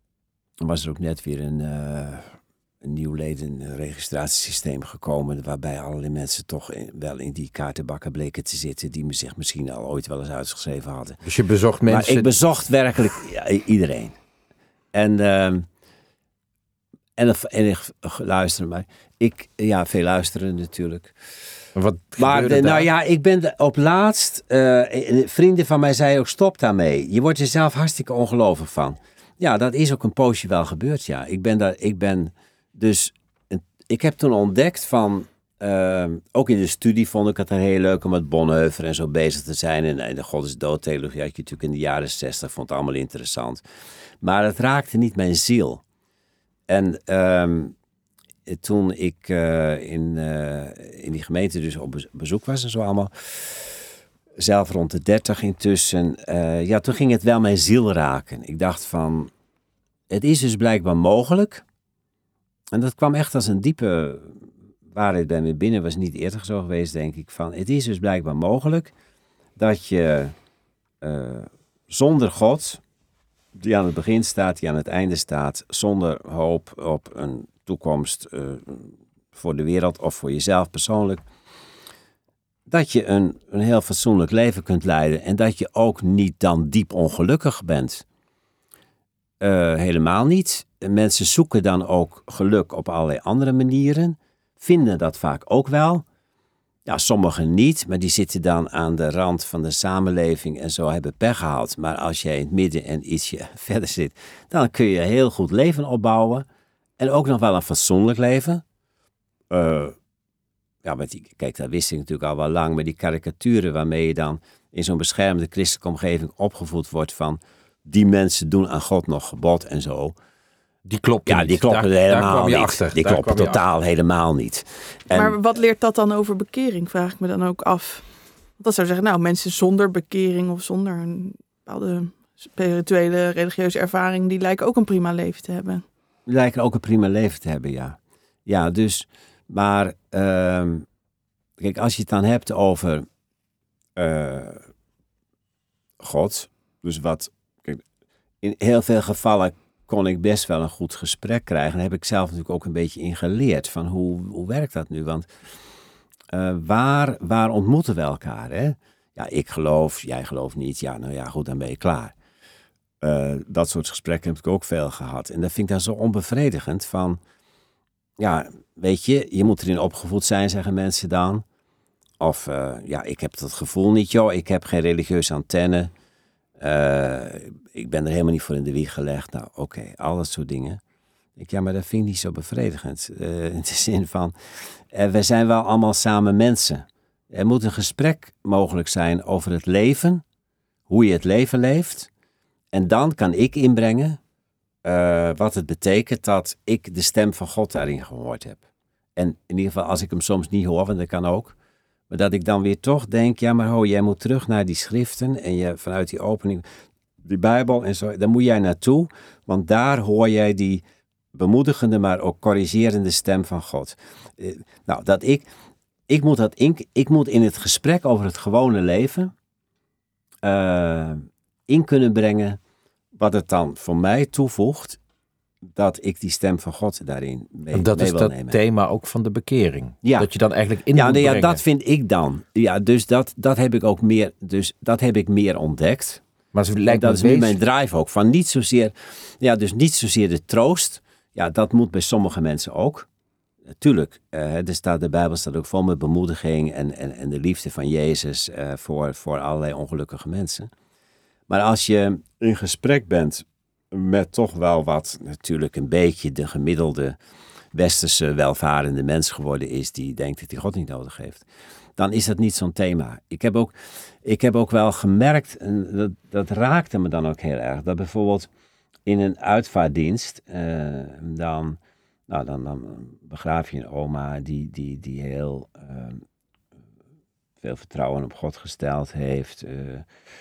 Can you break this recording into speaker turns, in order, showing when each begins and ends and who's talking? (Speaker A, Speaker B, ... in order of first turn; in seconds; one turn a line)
Speaker A: 0.6-11.2
Speaker B: 11.2-12.3
Speaker A: 11.9-14.2
Speaker A: 14.9-15.7
Speaker A: 17.2-21.1
Speaker B: 21.8-22.9
Speaker A: 22.2-43.6
Speaker A: 44.2-45.8
Speaker A: 46.7-47.7
Speaker A: 48.5-53.8
Speaker A: 54.4-59.3
Speaker A: 60.1-61.6
Speaker A: 62.7-68.9
Speaker A: 69.6-70.3
Speaker A: 71.0-72.8
Speaker A: 73.5-81.2
Speaker A: 82.7-88.0
Speaker A: 89.4-96.0
Speaker A: 96.8-106.5
Speaker A: 107.0-108.6
Speaker A: 109.5-110.0
Speaker A: 110.8-120.2
Speaker B: 120.8-123.6
Speaker A: 121.3-125.3
Speaker C: 125.1-128.1
Speaker C: 128.6-135.8
Speaker A: 136.3-140.8
Speaker A: 141.6-143.1
Speaker A: 143.9-144.6
Speaker A: 146.0-147.8
Speaker A: 148.4-155.3
Speaker A: 156.3-162.1
Speaker A: 163.0-167.2
Speaker A: 168.2-171.4
Speaker A: 172.2-175.9
Speaker A: 176.6-180.8
Speaker A: 181.3-184.3
Speaker A: 184.9-190.2
Speaker A: 190.9-192.1
Speaker A: 192.7-194.2
Speaker A: 194.8-198.6
Speaker A: 199.2-201.5
Speaker A: 202.1-206.6
Speaker A: 207.2-215.4
Speaker A: 216.1-219.3
Speaker A: 220.4-222.6
Speaker A: 223.1-225.0
Speaker A: 225.7-228.6
Speaker B: 227.7-231.6
Speaker A: 230.0-230.3
Speaker A: 230.9-236.2
Speaker B: 236.5-237.6
Speaker A: 236.9-243.1
Speaker A: 243.8-250.7
Speaker A: 251.5-257.1
Speaker A: 257.7-261.4
Speaker A: 262.0-268.5
Speaker A: 269.1-276.2
Speaker A: 277.6-280.1